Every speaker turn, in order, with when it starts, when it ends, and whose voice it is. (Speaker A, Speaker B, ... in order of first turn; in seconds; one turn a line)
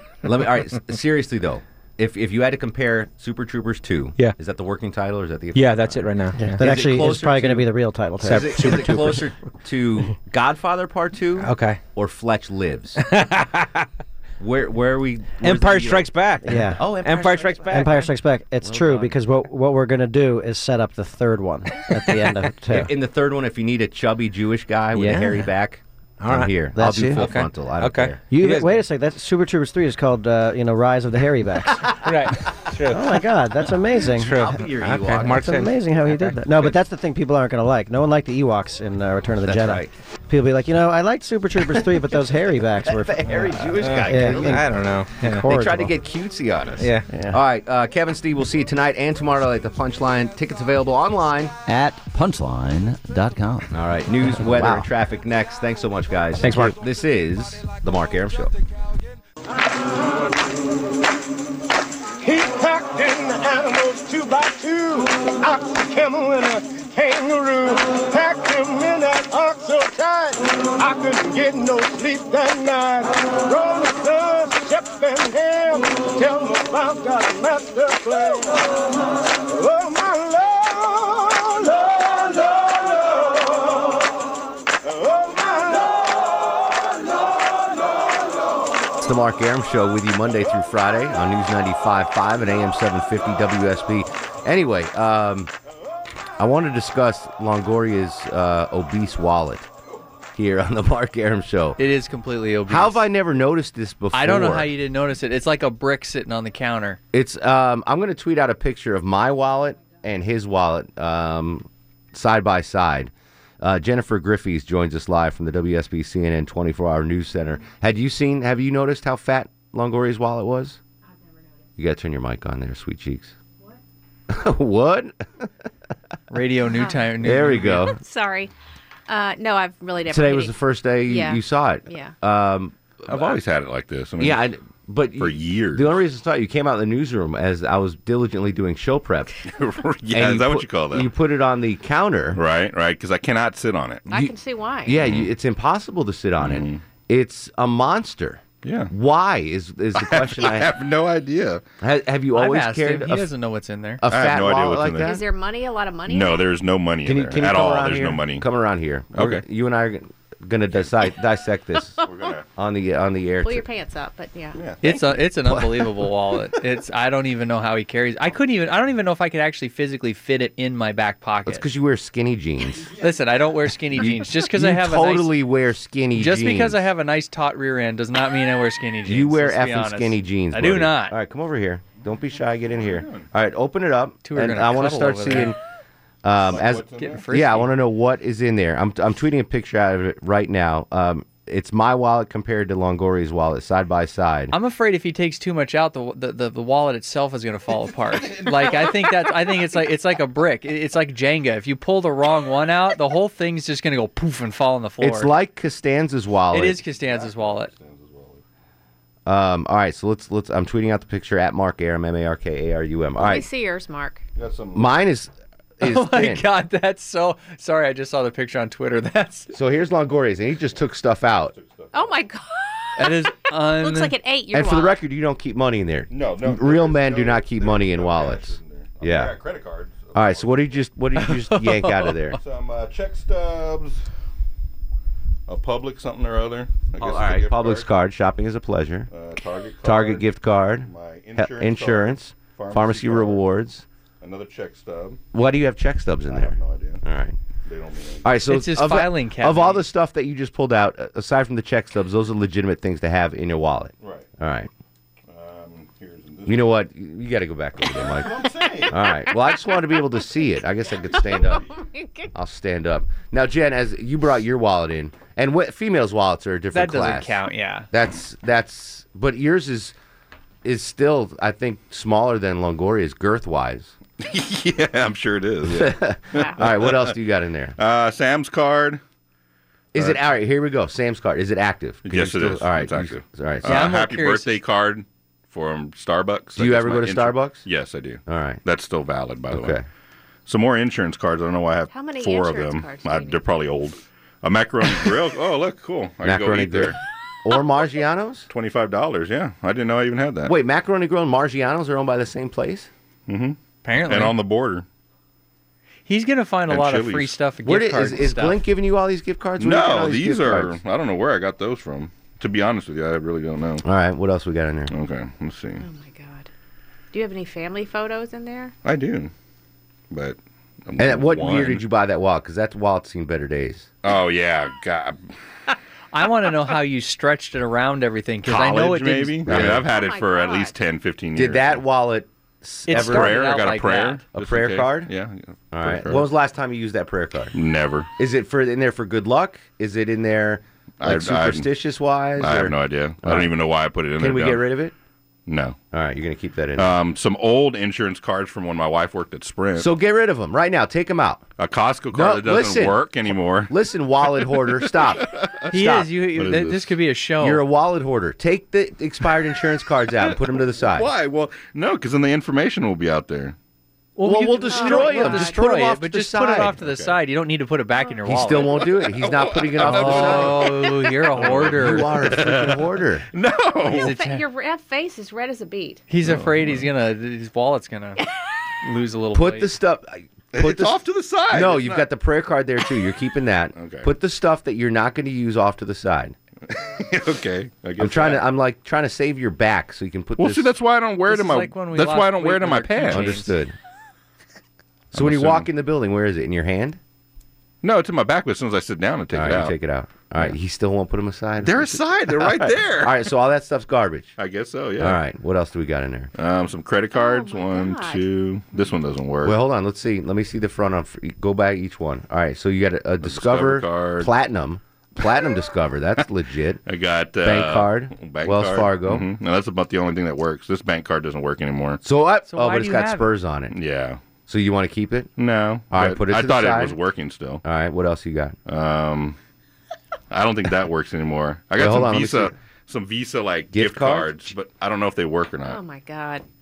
Speaker A: 0.2-6.1
Speaker B: 5.5-6.6
Speaker C: 6.4-9.1
Speaker A: 6.6-7.7
Speaker A: 8.2-13.0
Speaker B: 8.2-9.2
Speaker B: 11.4-11.8
Speaker B: 13.0-13.9
Speaker A: 14.4-16.1
Speaker B: 15.4-18.1
Speaker C: 16.4-16.9
Speaker A: 16.8-17.8
Speaker C: 17.7-22.9
Speaker A: 18.6-19.1
Speaker A: 22.7-28.2
Speaker B: 24.9-25.5
Speaker B: 26.2-28.8
Speaker C: 26.8-27.3
Speaker C: 28.3-31.9
Speaker B: 32.0-33.1
Speaker C: 32.9-34.5
Speaker B: 34.1-36.4
Speaker A: 34.2-35.4
Speaker C: 35.2-45.9
Speaker A: 39.4-39.9
Speaker A: 42.8-44.6
Speaker B: 43.8-45.5
Speaker A: 45.3-51.5
Speaker B: 46.8-47.1
Speaker C: 47.1-47.4
Speaker D: 51.6-53.7
Speaker A: 53.7-58.5
Speaker B: 54.4-54.8
Speaker B: 56.4-56.8
Speaker E: 62.2-78.6
Speaker E: 79.5-82.4
Speaker E: 85.0-86.0
Speaker A: 89.0-95.5
Speaker A: 96.4-99.7
Speaker A: 100.3-101.8
Speaker F: 101.8-103.0
Speaker A: 102.7-104.7
Speaker F: 104.1-107.0
Speaker A: 107.1-120.8
Speaker A: 121.8-123.3
Speaker A: 124.3-125.5
Speaker F: 126.3-127.9
Speaker G: 126.7-127.3
Speaker A: 127.2-128.0
Speaker G: 127.8-128.5
Speaker G: 129.1-132.1
Speaker A: 130.1-133.4
Speaker H: 133.1-134.4
Speaker A: 134.2-139.3
Speaker H: 135.2-136.0
Speaker H: 139.5-141.1
Speaker A: 140.1-142.4
Speaker H: 142.3-144.1
Speaker G: 144.1-145.0
Speaker A: 144.8-150.7
Speaker H: 145.0-145.3
Speaker H: 146.4-146.8
Speaker H: 148.6-148.9
Speaker H: 150.0-151.6
Speaker A: 151.8-153.3
Speaker F: 152.3-154.0
Speaker A: 154.0-155.2
Speaker H: 154.1-155.2
Speaker G: 155.0-156.6
Speaker H: 156.1-158.4
Speaker A: 157.0-163.7
Speaker H: 159.1-159.4
Speaker H: 162.0-162.4
Speaker G: 163.4-164.6
Speaker H: 164.5-165.2
Speaker F: 164.8-171.7
Speaker A: 171.4-172.9
Speaker F: 173.0-175.3
Speaker A: 173.9-176.8
Speaker F: 176.1-181.2
Speaker A: 179.0-185.6
Speaker H: 182.7-183.3
Speaker F: 184.2-185.5
Speaker A: 186.2-194.5
Speaker H: 186.4-187.3
Speaker F: 187.0-187.7
Speaker F: 194.5-205.3
Speaker H: 198.1-199.5
Speaker A: 205.0-206.8
Speaker F: 206.5-207.7
Speaker H: 206.9-208.4
Speaker A: 209.2-213.4
Speaker G: 213.2-214.2
Speaker H: 214.3-214.9
Speaker A: 214.7-216.4
Speaker F: 215.8-219.5
Speaker A: 219.5-221.5
Speaker H: 221.5-222.2
Speaker G: 221.9-225.0
Speaker F: 223.0-224.1
Speaker A: 224.5-229.3
Speaker H: 226.1-230.8
Speaker A: 230.1-232.4
Speaker F: 231.2-232.2
Speaker H: 232.4-234.0
Speaker H: 235.5-237.9
Speaker A: 237.0-239.1
Speaker H: 239.1-240.3
Speaker A: 239.8-243.8
Speaker H: 240.8-243.4
Speaker H: 244.2-245.2
Speaker A: 245.3-247.4
Speaker H: 246.3-247.0
Speaker H: 247.6-248.4
Speaker A: 248.2-254.7
Speaker F: 248.5-249.8
Speaker H: 254.0-254.3
Speaker H: 255.3-256.7
Speaker A: 256.5-261.7
Speaker H: 257.9-259.1
Speaker G: 261.7-262.3
Speaker A: 262.3-267.3
Speaker F: 266.7-267.9
Speaker A: 267.9-269.9
Speaker A: 270.6-273.9
Speaker H: 274.2-277.1
Speaker A: 275.6-277.8
Speaker H: 277.8-279.0
Speaker A: 279.9-283.8
Speaker H: 279.9-280.2
Speaker H: 282.0-289.8
Speaker F: 283.6-284.6
Speaker A: 286.6-287.6
Speaker A: 288.2-288.6
Speaker A: 289.5-289.8
Speaker H: 290.5-297.0
Speaker G: 291.9-293.5
Speaker A: 296.2-298.5
Speaker H: 298.5-300.5
Speaker A: 300.4-302.9
Speaker H: 303.3-304.8
Speaker F: 303.8-304.4
Speaker F: 306.1-308.6
Speaker H: 306.7-307.4
Speaker A: 307.6-310.8
Speaker H: 309.6-313.8
Speaker A: 313.8-314.9
Speaker H: 314.9-315.8
Speaker G: 315.8-316.5
Speaker G: 317.1-318.7
Speaker H: 318.8-319.3
Speaker H: 320.1-321.8
Speaker A: 321.0-323.9
Speaker H: 324.0-325.3
Speaker F: 326.1-329.7
Speaker H: 328.4-331.8
Speaker A: 329.4-329.9
Speaker G: 329.8-330.8
Speaker A: 331.4-333.6
Speaker F: 332.9-334.2
Speaker H: 332.9-336.3
Speaker A: 334.3-335.1
Speaker A: 335.7-337.5
Speaker H: 337.5-338.1
Speaker A: 338.2-343.5
Speaker H: 341.0-341.7
Speaker H: 342.4-344.7
Speaker A: 344.2-344.9
Speaker H: 345.5-345.8
Speaker A: 345.9-346.9
Speaker H: 346.8-349.9
Speaker A: 349.8-351.4
Speaker H: 351.6-353.7
Speaker A: 352.1-353.0
Speaker A: 353.7-356.1
Speaker H: 354.2-356.9
Speaker F: 355.7-357.6
Speaker A: 357.4-361.1
Speaker H: 360.8-363.6
Speaker F: 364.2-368.8
Speaker A: 364.2-366.8
Speaker G: 364.7-365.6
Speaker H: 366.8-367.2
Speaker G: 368.0-368.3
Speaker A: 368.2-370.7
Speaker H: 368.8-374.1
Speaker F: 369.8-372.1
Speaker A: 371.4-373.2
Speaker G: 373.9-376.0
Speaker F: 373.9-374.4
Speaker F: 376.1-378.2
Speaker H: 376.2-376.9
Speaker F: 378.8-379.7
Speaker A: 379.3-386.3
Speaker H: 380.5-382.1
Speaker H: 383.7-384.1
Speaker H: 386.7-388.4
Speaker A: 388.0-390.7
Speaker H: 390.4-393.4
Speaker F: 391.3-393.5
Speaker A: 393.1-393.7
Speaker H: 395.1-395.7
Speaker A: 395.1-397.0
Speaker H: 397.8-399.7
Speaker A: 399.3-404.4
Speaker H: 401.6-403.3
Speaker H: 404.4-405.2
Speaker A: 405.0-406.3
Speaker H: 406.4-409.5
Speaker G: 407.1-408.9
Speaker A: 409.4-416.8
Speaker H: 413.2-414.3
Speaker H: 416.9-422.0
Speaker A: 417.4-419.2
Speaker A: 422.0-423.7
Speaker F: 422.5-423.3
Speaker H: 423.7-424.2
Speaker A: 424.5-425.3
Speaker H: 425.4-427.6
Speaker A: 425.9-427.0
Speaker A: 427.6-428.6
Speaker H: 428.6-429.4
Speaker H: 430.3-435.8
Speaker A: 431.8-432.5
Speaker A: 433.7-434.4
Speaker G: 435.6-436.4